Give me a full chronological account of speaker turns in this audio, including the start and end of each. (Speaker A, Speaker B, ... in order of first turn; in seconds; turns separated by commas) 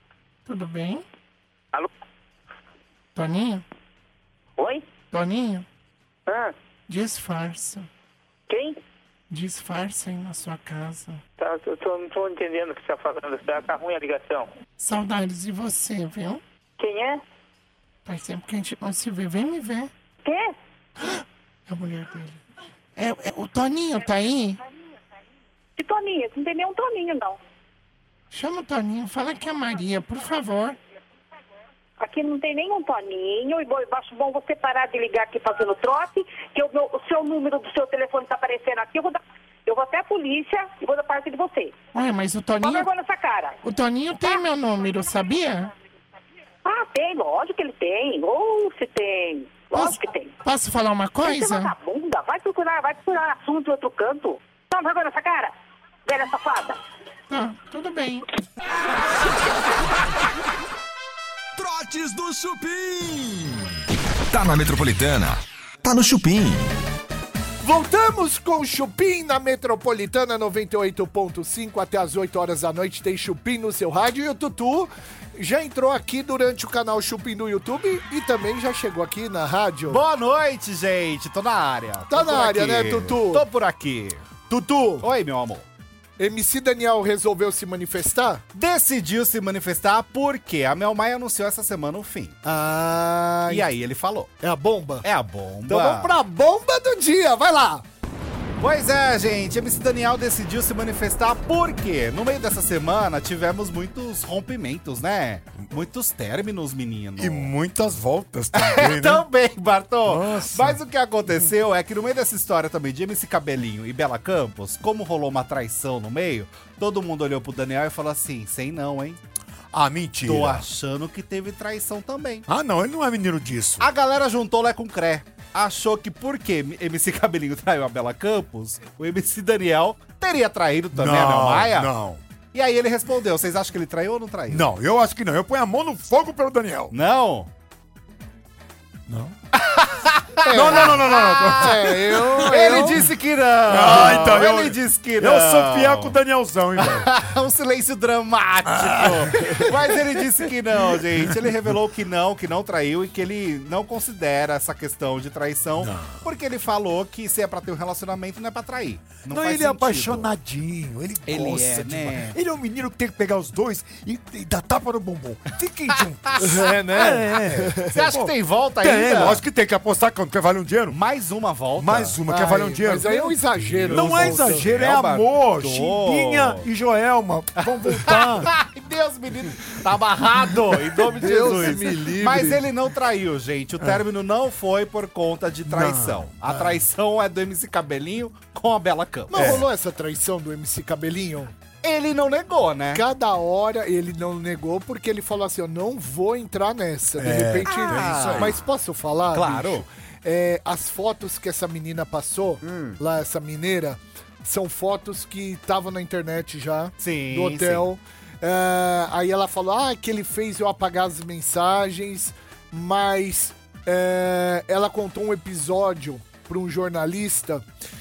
Speaker A: 0.5-1.0, Speaker A: 3.1-3.6, Speaker A: 5.1-5.6, Speaker B: 6.3-6.5, Speaker A: 6.9-7.9, Speaker B: 8.5-8.8, Speaker A: 9.3-11.2, Speaker B: 11.4-14.5, Speaker A: 14.8-16.4, Speaker B: 16.8-17.2, Speaker A: 18.1-19.9, Speaker C: 20.2-20.6, Speaker A: 21.0-22.4, Speaker A: 22.9-24.6, Speaker C: 25.8-27.4, Speaker A: 28.3-30.8, Speaker C: 32.0-41.8, Speaker A: 41.9-42.9, Speaker C: 42.6-43.6, Speaker A: 43.6-45.7, Speaker C: 46.6-50.3, Speaker A: 49.7-51.7, Speaker C: 51.2-55.5, Speaker C: 56.1-56.8, Speaker A: 57.3-58.2, Speaker D: 61.5-66.7, Speaker E: 67.6-80.0, Speaker F: 79.9-84.3, Speaker E: 82.1-83.4, Speaker E: 84.5-85.1, Speaker F: 85.0-85.6, Speaker E: 86.2-88.4, Speaker F: 88.5-92.4, Speaker E: 92.4-93.7, Speaker F: 93.5-94.3, Speaker E: 94.4-95.0, Speaker F: 95.0-96.1, Speaker E: 95.7-97.8, Speaker F: 98.6-107.5, Speaker G: 107.2-109.3, Speaker F: 108.5-119.2, Speaker G: 110.0-110.8, Speaker G: 119.7-120.7, Speaker F: 120.2-122.4, Speaker G: 122.5-123.9, Speaker F: 123.8-131.9, Speaker G: 130.9-132.2, Speaker F: 132.5-134.7, Speaker G: 134.5-136.9, Speaker F: 136.9-137.5, Speaker G: 139.1-139.3, Speaker F: 139.6-146.2, Speaker G: 140.4-142.6, Speaker E: 140.4-143.0, Speaker G: 143.7-147.1, Speaker F: 146.8-160.3, Speaker G: 148.6-150.1, Speaker G: 150.8-151.5, Speaker G: 155.8-156.2, Speaker G: 159.3-171.0, Speaker F: 161.3-162.4, Speaker E: 166.4-167.9, Speaker F: 167.9-169.4, Speaker F: 170.9-172.2, Speaker G: 171.8-173.3, Speaker E: 172.3-174.7, Speaker F: 173.7-176.7, Speaker G: 173.9-178.5, Speaker F: 177.6-189.7, Speaker E: 181.0-182.7, Speaker G: 181.2-182.0, Speaker G: 185.7-186.8, Speaker E: 189.3-191.5, Speaker G: 189.3-189.7, Speaker F: 191.8-193.0, Speaker E: 192.9-217.6, Speaker G: 197.2-198.6, Speaker F: 197.7-198.6, Speaker F: 199.3-199.8, Speaker F: 202.6-203.0, Speaker F: 207.0-207.9